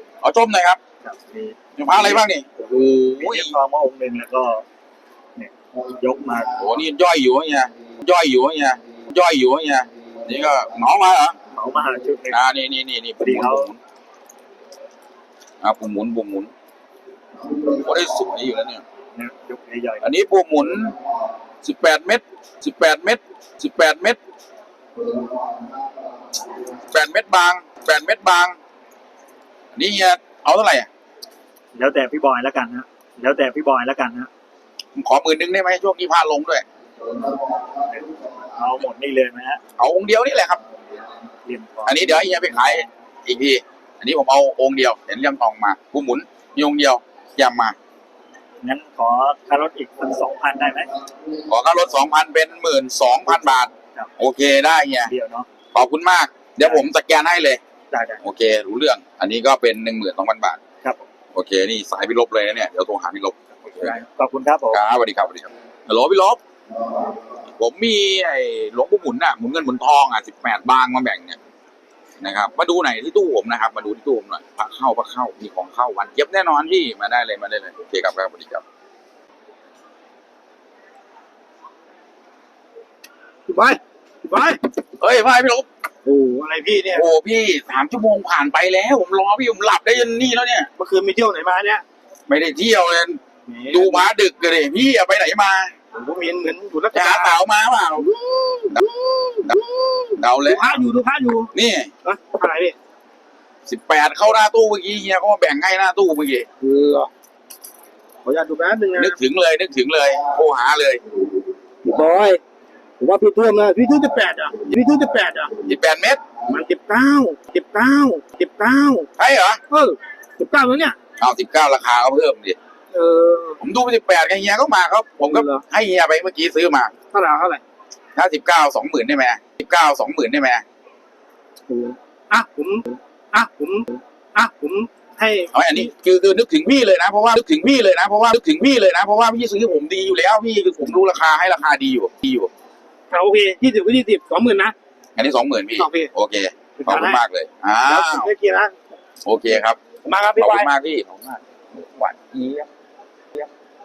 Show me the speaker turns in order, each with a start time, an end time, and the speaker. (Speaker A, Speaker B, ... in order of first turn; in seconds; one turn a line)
Speaker A: 0.2-0.8
Speaker B: 1.0-2.2
Speaker A: 1.8-3.5
Speaker B: 3.1-4.6
Speaker B: 5.3-6.6
Speaker A: 6.5-11.3
Speaker B: 11.5-12.4
Speaker A: 12.3-13.8
Speaker B: 13.2-13.7
Speaker A: 15.6-16.5
Speaker A: 17.6-18.8
Speaker B: 19.1-20.1
Speaker A: 20.0-20.9
Speaker A: 21.6-24.2
Speaker A: 26.9-28.6
Speaker A: 29.7-30.9
Speaker B: 31.7-34.3
Speaker A: 34.9-36.6
Speaker B: 37.9-39.6
Speaker A: 39.8-40.6
Speaker B: 41.4-42.8
Speaker A: 41.8-47.7
Speaker B: 48.6-50.9
Speaker A: 51.5-55.1
Speaker B: 53.6-54.1
Speaker B: 55.1-55.5
Speaker A: 55.7-57.6
Speaker B: 56.6-56.8
Speaker B: 57.9-58.2
Speaker A: 58.2-60.6
Speaker B: 60.8-61.1
Speaker A: 61.3-64.0
Speaker B: 63.7-64.8
Speaker A: 64.7-66.4
Speaker A: 67.5-71.4
Speaker A: 72.2-78.6
Speaker C: 83.5-84.6
Speaker A: 85.0-85.7
Speaker C: 86.0-87.0
Speaker A: 86.9-90.7
Speaker C: 90.8-91.8
Speaker A: 92.3-95.7
Speaker C: 93.5-94.1
Speaker C: 95.9-97.3
Speaker A: 96.9-98.1
Speaker C: 98.0-101.5
Speaker A: 100.2-100.8
Speaker A: 101.5-101.9
Speaker C: 102.0-102.8
Speaker A: 103.7-106.5
Speaker C: 106.6-107.1
Speaker C: 108.2-109.2
Speaker A: 109.0-111.0
Speaker C: 111.8-112.4
Speaker C: 113.0-115.5
Speaker A: 115.6-116.2
Speaker C: 116.5-119.1
Speaker A: 119.2-119.6
Speaker C: 119.7-121.0
Speaker A: 121.2-122.6
Speaker C: 122.9-123.6
Speaker A: 123.6-126.9
Speaker C: 125.3-125.6
Speaker C: 127.1-127.6
Speaker A: 128.1-130.6
Speaker C: 131.7-135.9
Speaker A: 135.5-142.5
Speaker C: 143.1-144.7
Speaker A: 145.2-148.3
Speaker C: 145.8-146.1
Speaker C: 146.8-147.2
Speaker C: 147.8-148.7
Speaker A: 149.2-149.8
Speaker C: 150.0-150.7
Speaker A: 150.3-152.7